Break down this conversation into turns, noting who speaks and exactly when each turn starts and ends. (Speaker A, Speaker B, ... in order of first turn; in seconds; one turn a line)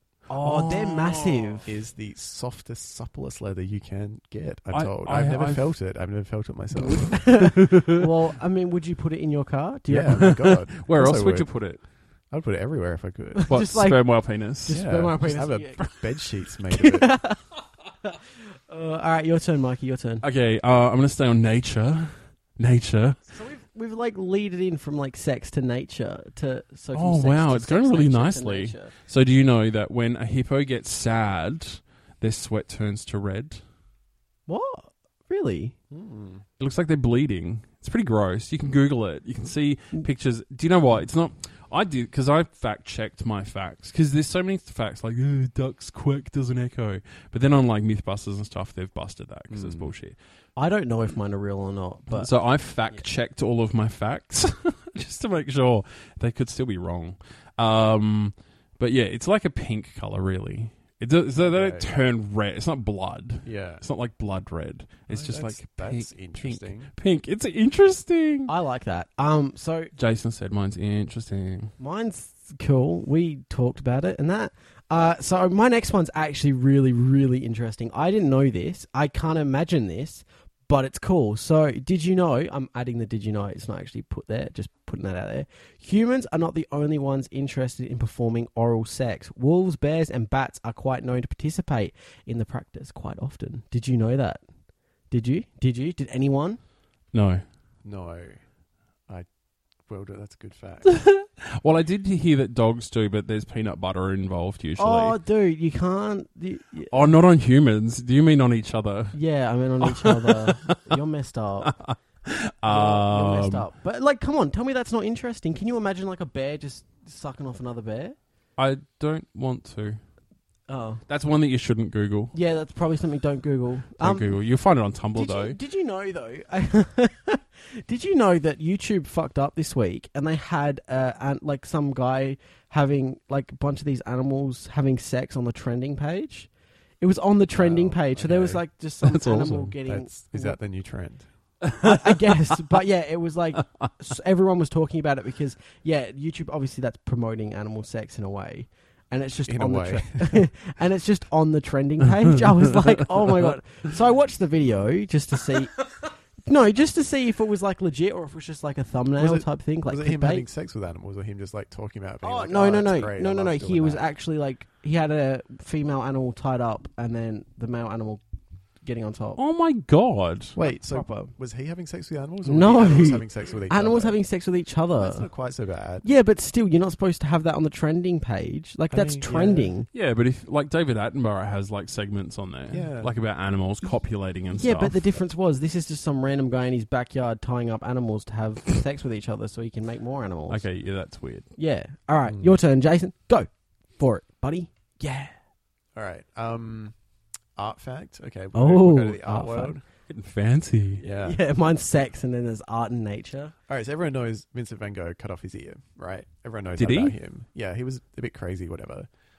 Speaker A: 0.3-1.7
Speaker B: 0.3-1.7
Speaker C: 1.7-7.4
Speaker B: 4.7-5.8
Speaker A: 6.8-10.4
Speaker B: 7.6-7.9
Speaker C: 9.9-13.8
Speaker B: 10.1-11.8
Speaker A: 13.3-16.2
Speaker B: 13.5-14.9
Speaker C: 14.7-17.1
Speaker A: 16.7-17.5
Speaker A: 18.0-20.2
Speaker B: 20.2-23.2
Speaker A: 23.3-28.9
Speaker B: 26.9-33.6
Speaker A: 34.5-35.8
Speaker C: 35.9-36.4
Speaker B: 36.6-50.2
Speaker C: 49.5-50.0
Speaker A: 50.6-52.3
Speaker B: 52.1-68.5
Speaker C: 61.4-61.9
Speaker C: 63.4-63.8
Speaker C: 65.1-66.9
Speaker A: 68.5-69.9
Speaker B: 70.0-71.7
Speaker A: 71.8-94.4
Speaker A: 95.1-96.6
Speaker B: 97.1-97.4
Speaker C: 97.8-98.4
Speaker C: 99.9-100.9
Speaker B: 100.9-105.2
Speaker A: 104.8-107.0
Speaker B: 106.9-109.2
Speaker A: 109.1-111.8
Speaker B: 109.9-111.0
Speaker B: 111.7-113.7
Speaker A: 112.7-118.2
Speaker B: 118.6-120.0
Speaker A: 120.7-121.0
Speaker B: 121.1-122.3
Speaker A: 122.3-124.3
Speaker B: 124.0-125.6
Speaker A: 125.2-140.6
Speaker C: 137.6-138.6
Speaker B: 139.0-139.7
Speaker C: 139.9-141.3
Speaker B: 141.7-142.5
Speaker A: 141.8-155.9
Speaker C: 149.5-150.5
Speaker A: 156.4-160.5
Speaker C: 159.2-164.1
Speaker A: 162.2-168.2
Speaker A: 168.8-169.4
Speaker B: 169.4-170.6
Speaker C: 170.6-174.2
Speaker A: 170.6-171.3
Speaker A: 172.4-175.3
Speaker C: 175.0-176.1
Speaker A: 176.0-179.9
Speaker C: 178.9-179.7
Speaker B: 179.9-185.1
Speaker C: 182.7-183.1
Speaker A: 184.5-190.7
Speaker B: 190.5-191.5
Speaker A: 191.6-195.3
Speaker C: 192.3-192.6
Speaker C: 195.9-196.9
Speaker C: 197.6-199.8
Speaker A: 198.5-199.8
Speaker B: 200.1-201.1
Speaker C: 201.0-201.4
Speaker A: 201.2-203.5
Speaker C: 203.7-209.1
Speaker B: 206.8-207.2